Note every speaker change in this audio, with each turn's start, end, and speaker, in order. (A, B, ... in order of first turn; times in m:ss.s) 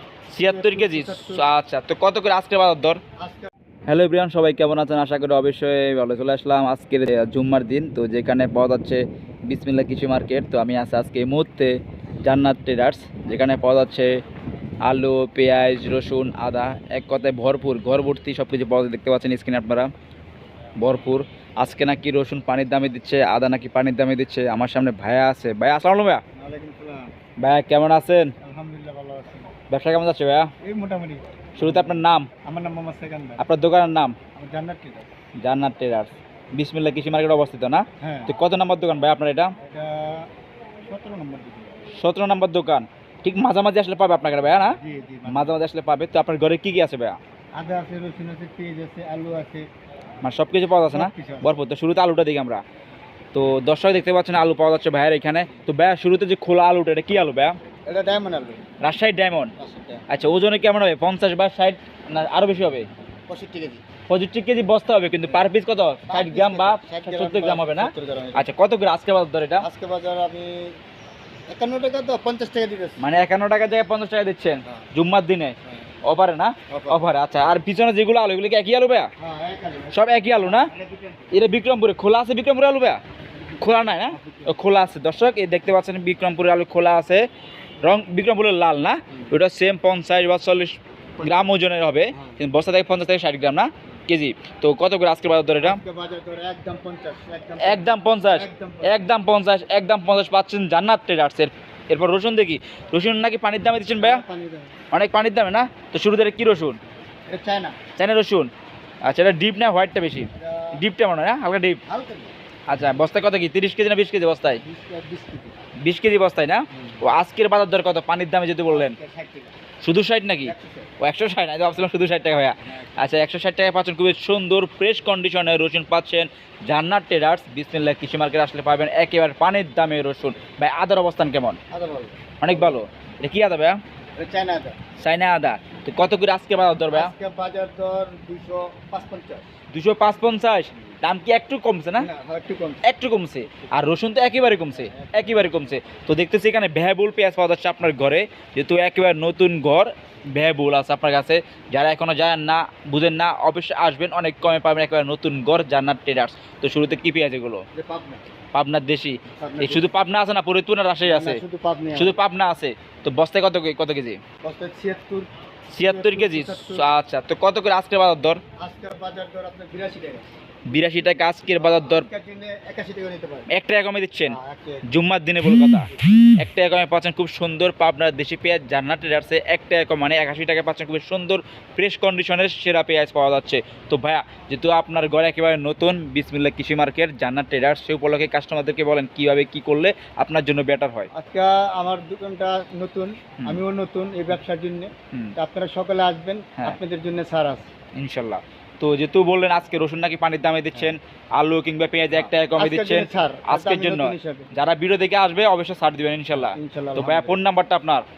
0:00.3-0:03.0 A
0:00.5-0:01.5 B
0:03.2-0:03.5 B
0:03.9-0:14.2 A
0:14.8-0:19.9 A
0:20.8-0:26.2 A
0:26.4-0:27.1 B
0:27.4-0:28.3 A
0:28.4-0:29.5 B
0:29.7-0:30.5 A
0:30.6-0:33.4 B
0:31.6-0:32.3 A
0:33.4-0:34.2 A
0:34.4-0:35.1 B
0:35.4-0:39.6 A
0:38.0-0:38.3 B
0:39.6-0:40.3 B
0:40.8-0:41.9 B
0:42.0-0:47.2 A
0:44.8-0:45.6 B
0:47.6-0:49.7 B
0:50.2-0:52.6 A
0:50.9-0:51.6 B
0:53.3-0:57.6 A
0:57.9-0:58.6 B
0:58.8-0:59.5 A
0:59.6-1:00.0 B
1:00.1-1:02.9 A
1:03.3-1:03.8 B
1:04.1-1:09.6 A
1:06.1-1:08.4 B
1:09.6-1:10.8 B
1:11.5-1:13.0 B
1:13.0-1:19.1 A
1:16.7-1:17.0 B
1:19.2-1:21.3 B
1:19.9-1:20.7 A
1:21.3-1:23.0 A
1:23.4-1:24.6 B
1:23.6-1:27.3 A
1:27.8-1:35.8 A
1:31.2-1:31.5 B
1:32.1-1:32.4 B
1:35.6-1:39.1 B
1:37.6-1:44.2 A
1:44.0-1:44.7 B
1:44.9-1:46.8 A
1:47.3-1:47.8 B
1:48.0-1:48.5 A
1:49.0-1:51.8 A
1:50.4-1:50.8 B
1:51.9-1:52.3 B
1:52.7-1:54.6 A
1:54.6-1:55.5 B
1:55.8-1:59.0 A
1:56.7-1:57.0 B
1:58.7-1:59.5 B
1:59.8-2:11.6 A
2:00.4-2:00.9 B
2:02.7-2:03.0 B
2:11.7-2:12.8 B
2:12.4-2:13.8 A
2:14.2-2:14.8 B
2:15.0-2:17.1 A
2:16.9-2:19.5 B
2:19.7-2:22.1 A
2:22.0-2:22.8 B
2:22.8-2:37.6 A
2:23.4-2:23.8 B
2:24.7-2:25.8 B
2:37.7-2:38.2 B
2:38.5-2:41.4 A
2:39.4-2:39.9 B
2:41.0-2:42.2 B
2:41.9-2:44.2 A
2:44.4-2:45.3 B
2:45.7-2:48.4 A
2:45.9-2:46.9 B
2:48.6-2:50.3 B
2:50.7-2:52.1 A
2:51.6-2:53.5 B
2:53.5-3:11.1 A
2:54.3-2:54.9 B
3:11.1-3:17.7 B
3:18.0-3:28.0 A
3:22.1-3:24.5 B
3:26.3-3:27.4 B